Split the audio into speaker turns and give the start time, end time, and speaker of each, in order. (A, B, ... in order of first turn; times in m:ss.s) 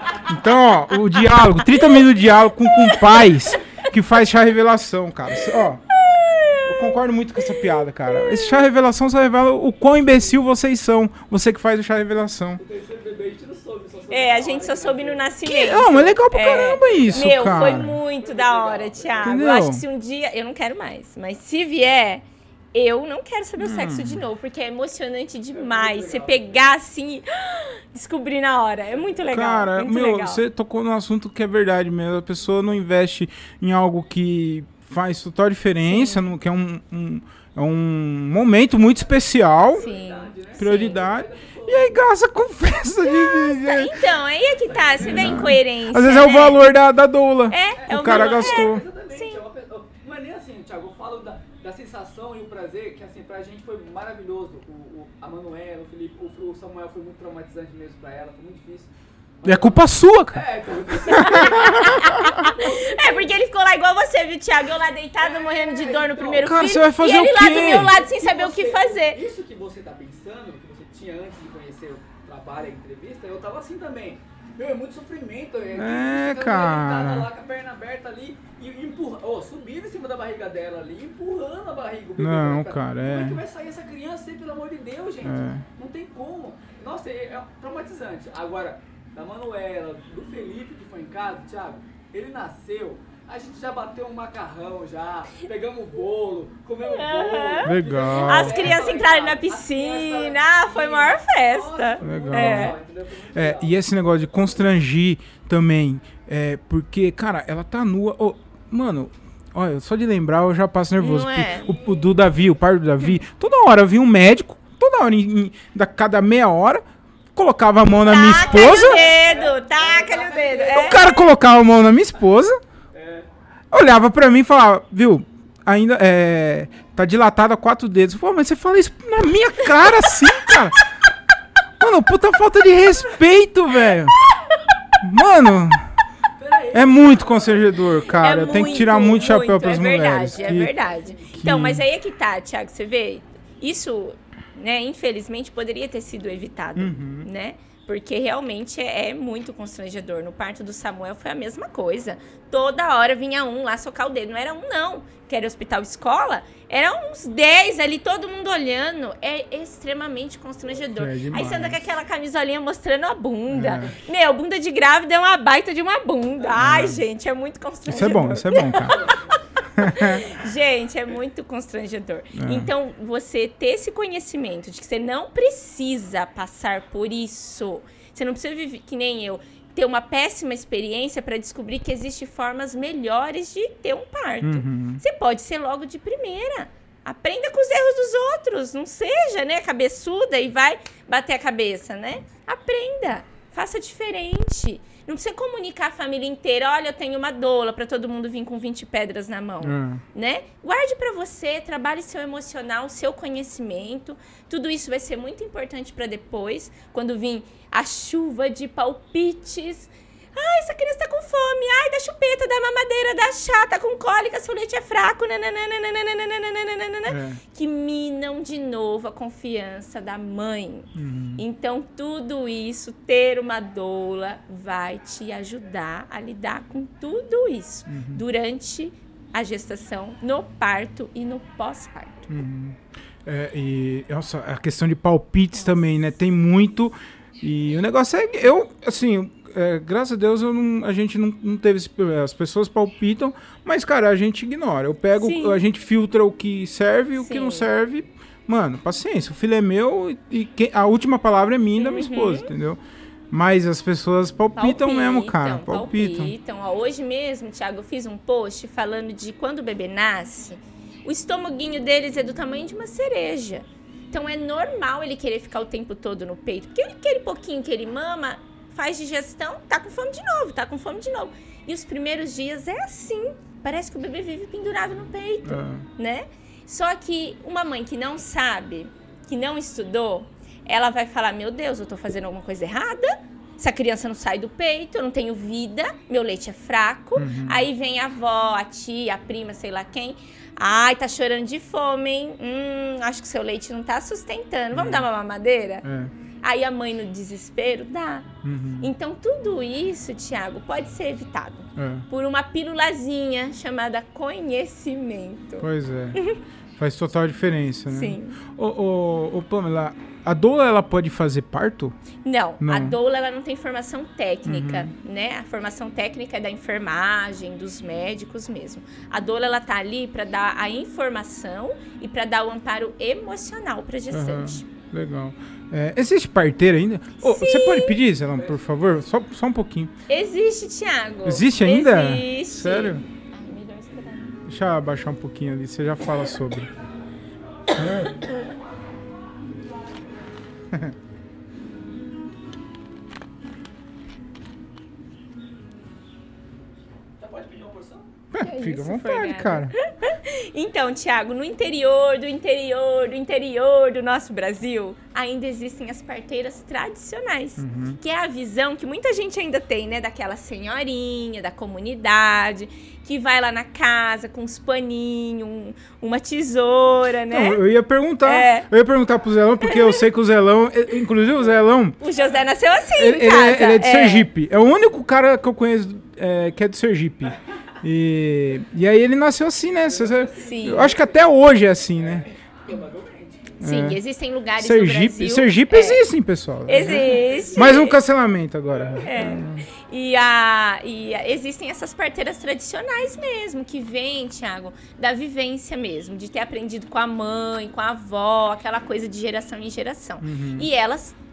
0:00.2-0:05.8 A
0:05.9-0:07.0 B
0:06.6-0:12.6 A
0:08.1-0:08.6 B
0:12.6-0:15.3 C
0:14.1-0:30.4 B
0:15.4-0:18.0 A
0:16.8-0:19.4 C
0:19.2-0:19.8 A
0:23.6-0:24.2 A
0:25.5-0:26.7 C
0:28.9-0:29.2 C
0:29.3-0:39.9 A
0:35.8-0:36.3 B
0:39.6-0:41.9 C
0:39.8-0:41.0 B
0:40.6-0:44.0 A
0:43.0-0:46.6 B
0:44.6-0:45.5 C
0:45.0-0:48.8 A
0:47.5-0:49.4 B
0:47.8-1:03.3 C
0:59.4-1:00.4 A
1:01.1-1:02.5 A
1:01.1-1:09.2 B
1:05.2-1:06.7 C
1:06.4-1:07.9 A
1:07.4-1:43.8 C
1:15.7-1:17.3 A
1:22.2-1:23.4 A
1:25.2-1:25.6 A
1:36.8-1:42.8 B
1:37.6-1:38.8 A
1:42.0-1:42.8 A
1:43.3-1:59.0 A
1:51.0-1:51.7 B
1:51.6-1:52.2 C
1:58.0-2:01.1 B
1:58.4-2:01.1 C
2:00.7-2:02.6 A
2:02.9-2:03.3 C
2:03.7-2:10.8 A
2:11.8-2:14.2 A
2:15.0-2:15.9 A
2:16.4-2:21.4 C
2:16.7-2:20.7 A
2:18.2-2:49.1 B
2:21.3-2:21.8 A
2:26.8-2:27.3 A
2:41.0-2:41.8 A
2:43.5-2:43.9 A
2:46.6-2:47.0 A
2:47.9-2:49.1 A
2:48.5-2:49.4 C
2:49.8-2:50.2 A
2:49.8-3:52.3 B
2:52.3-2:52.7 A
3:04.4-3:05.0 A
3:19.6-3:20.0 A
3:37.1-3:37.4 A
3:40.9-3:41.4 A
3:47.9-3:48.2 A
3:52.3-4:12.8 A
4:05.2-4:05.6 B
4:07.2-4:07.7 B
4:11.8-4:12.5 B
4:13.3-4:16.3 A
4:14.6-4:55.8 B
4:35.4-4:35.8 A
4:47.2-4:47.7 A
4:54.7-4:55.0 A
4:55.8-4:56.1 A
4:56.4-4:58.3 B
4:58.4-4:58.9 A
4:58.8-5:06.4 B
5:01.8-5:02.1 A
5:05.6-5:06.2 A
5:06.8-5:12.0 A
5:07.9-5:08.4 B
5:12.2-5:24.6 B
5:12.6-5:13.0 A
5:14.4-5:14.9 A
5:24.1-5:29.9 A
5:27.2-5:28.0 B
5:28.3-5:28.6 C
5:30.1-5:34.4 B
5:31.2-5:33.0 A
5:34.4-5:36.7 A
5:37.8-5:38.1 A
5:47.2-5:48.1 C
5:48.3-5:49.7 A
5:48.4-6:07.6 B
5:57.6-5:58.0 A
6:07.3-6:12.0 A
6:08.2-6:08.7 B
6:09.6-6:10.0 B
6:12.0-6:14.3 B
6:13.0-6:22.3 A
6:19.8-6:21.2 C
6:20.4-6:20.9 B
6:22.0-6:23.6 C
6:23.6-6:24.0 A
6:23.6-6:26.0 B
6:24.6-6:29.6 A
6:26.6-6:28.0 B
6:26.7-6:27.8 C
6:29.0-6:41.2 B
6:40.2-6:40.7 A